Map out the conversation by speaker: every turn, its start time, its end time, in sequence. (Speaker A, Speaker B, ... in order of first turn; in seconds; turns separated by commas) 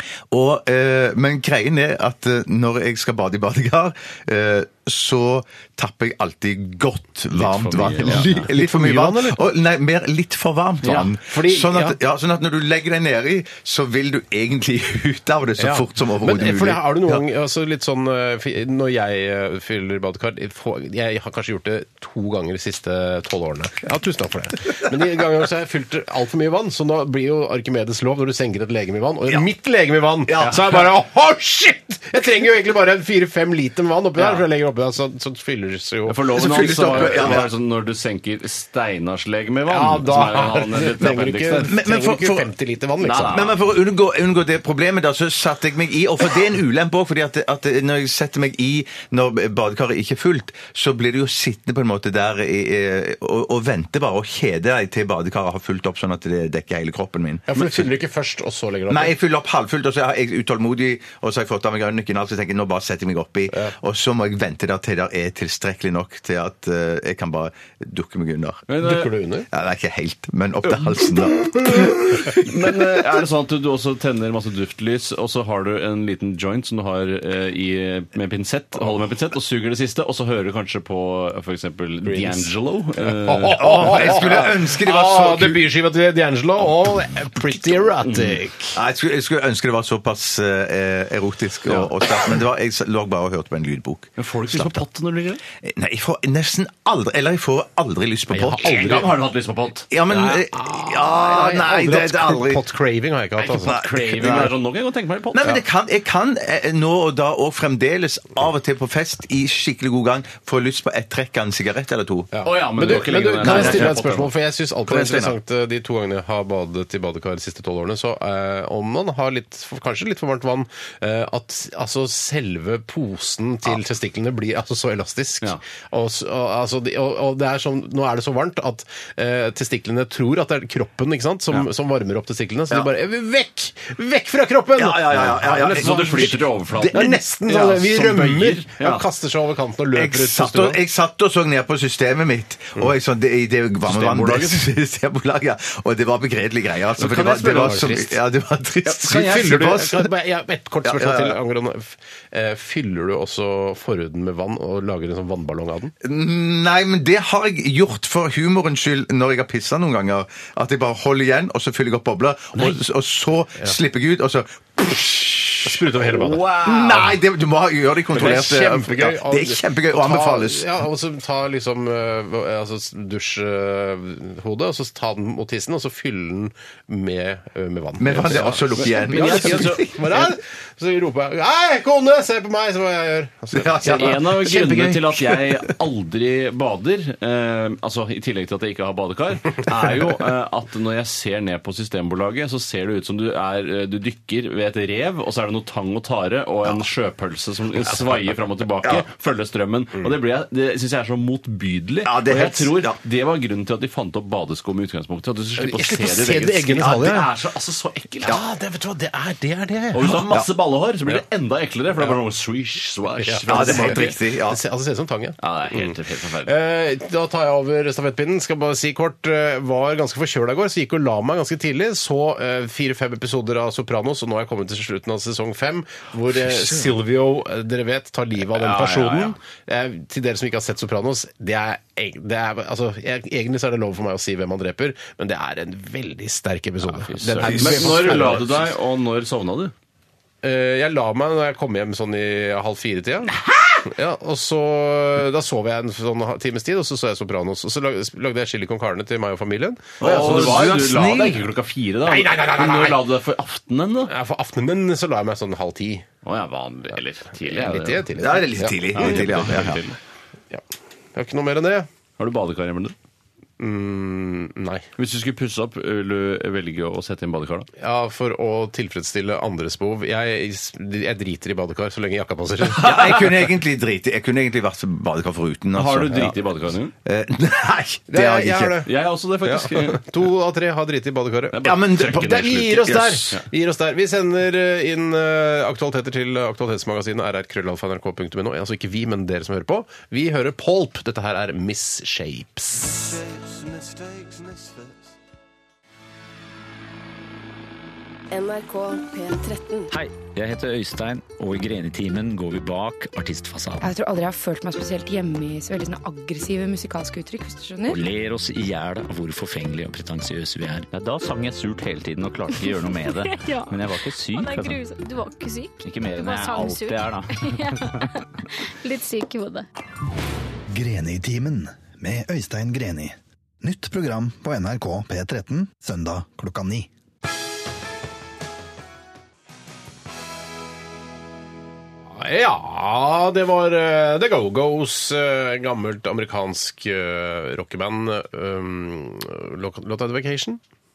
Speaker A: 0.3-17.2, Speaker B: 7.3-8.5, Speaker C: 8.1-9.4, Speaker B: 10.8-11.1, Speaker C: 11.2-12.0, Speaker C: 15.6-37.4, Speaker A: 30.3-30.8, Speaker B: 34.2-34.4, Speaker B: 36.0-41.7, Speaker A: 36.3-37.5, Speaker C: 39.7-43.5, Speaker A: 41.7-42.5, Speaker B: 43.0-43.5, Speaker A: 43.3-57.9, Speaker C: 57.5-59.1, Speaker A: 58.9-68.7, Speaker B: 68.7-69.1, Speaker C: 68.8-69.5, Speaker A: 69.5-72.7, Speaker B: 72.3-84.2, Speaker C: 82.0-88.8, Speaker A: 83.6-85.7, Speaker B: 88.0-88.4, Speaker A: 88.7-94.8, Speaker B: 94.2-95.4, Speaker A: 95.6-99.1, Speaker C: 98.3-99.1, Speaker B: 98.6-99.9, Speaker A: 99.9-102.6, Speaker C: 100.1-104.5, Speaker B: 103.4-105.6, Speaker A: 103.7-104.5, Speaker A: 105.3-112.3, Speaker C: 112.3-140.8, Speaker B: 112.4-114.3, Speaker A: 113.4-114.0, Speaker A: 114.8-115.3, Speaker A: 134.8-137.2, Speaker B: 135.5-139.0, Speaker A: 139.9-150.1, Speaker B: 143.8-144.7, Speaker B: 147.0-148.1, Speaker C: 148.9-155.9, Speaker A: 150.8-151.4, Speaker A: 156.0-170.8, Speaker C: 165.6-166.5, Speaker B: 166.3-167.1, Speaker C: 168.1-184.8, Speaker A: 178.0-180.2, Speaker B: 178.8-180.0, Speaker A: 183.5-185.6, Speaker B: 183.8-208.4, Speaker A: 202.0-203.0, Speaker C: 205.6-207.3, Speaker C: 208.2-210.3, Speaker B: 209.9-214.1, Speaker C: 213.2-238.6, Speaker A: 213.5-214.6, Speaker B: 215.4-216.5, Speaker B: 228.5-229.3, Speaker B: 237.0-239.7, Speaker A: 237.4-238.3, Speaker C: 240.4-250.8, Speaker B: 250.0-254.1, Speaker A: 250.0-251.4, Speaker C: 252.0-253.1, Speaker C: 254.1-256.1, Speaker B: 256.2-258.1, Speaker C: 257.4-259.5, Speaker A: 258.2-259.8, Speaker B: 258.9-259.9, Speaker C: 261.1-261.9, Speaker B: 262.2-262.9, Speaker C: 263.6-264.9, Speaker B: 265.0-267.7, Speaker C: 267.8-273.3, Speaker A: 272.8-276.5, Speaker B: 275.7-276.9, Speaker A: 277.0-278.8, Speaker C: 278.1-278.9, Speaker B: 278.9-280.0, Speaker C: 279.4-293.2, Speaker B: 281.5-283.4, Speaker A: 281.6-283.3, Speaker D: 298.3-299.9, Speaker E: 299.9-303.9, Speaker D: 303.8-308.0, Speaker E: 307.9-314.8, Speaker F: 313.3-313.8, Speaker F: 314.3-318.0, Speaker E: 315.8-318.0, Speaker F: 318.8-319.7, Speaker G: 320.7-326.9, Speaker C: 332.1-340.6